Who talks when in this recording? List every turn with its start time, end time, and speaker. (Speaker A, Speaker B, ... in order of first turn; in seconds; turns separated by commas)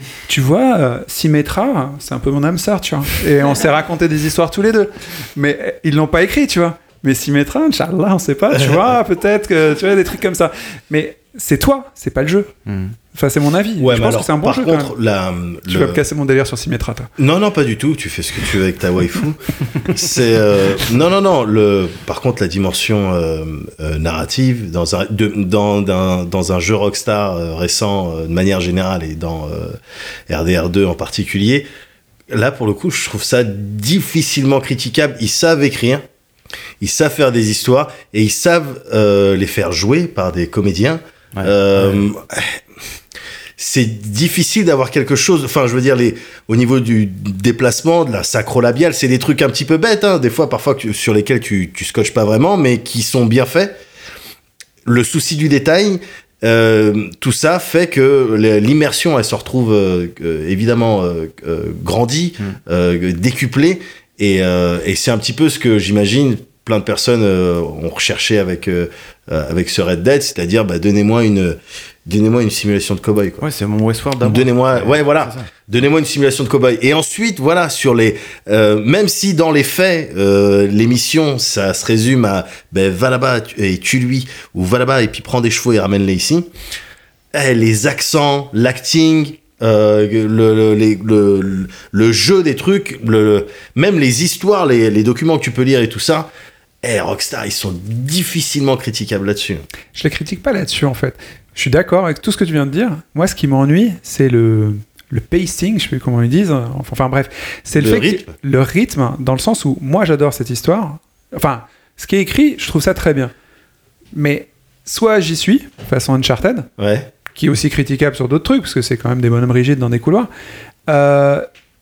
Speaker A: 0.3-12.5, Speaker B: 12.7-12.9, Speaker A: 13.1-14.9, Speaker C: 13.8-16.0, Speaker A: 15.7-17.1, Speaker C: 17.2-29.8, Speaker C: 30.3-31.7, Speaker C: 32.3-36.0, Speaker C: 36.8-42.5, Speaker B: 41.3-42.0, Speaker C: 43.6-53.8, Speaker C: 54.8-73.4, Speaker B: 73.4-75.5, Speaker C: 74.2-86.5, Speaker C: 87.3-96.3, Speaker C: 96.8-99.6, Speaker A: 99.9-113.3, Speaker C: 107.8-108.3, Speaker A: 114.1-116.7, Speaker C: 116.8-117.1, Speaker A: 117.3-120.3, Speaker A: 120.9-121.5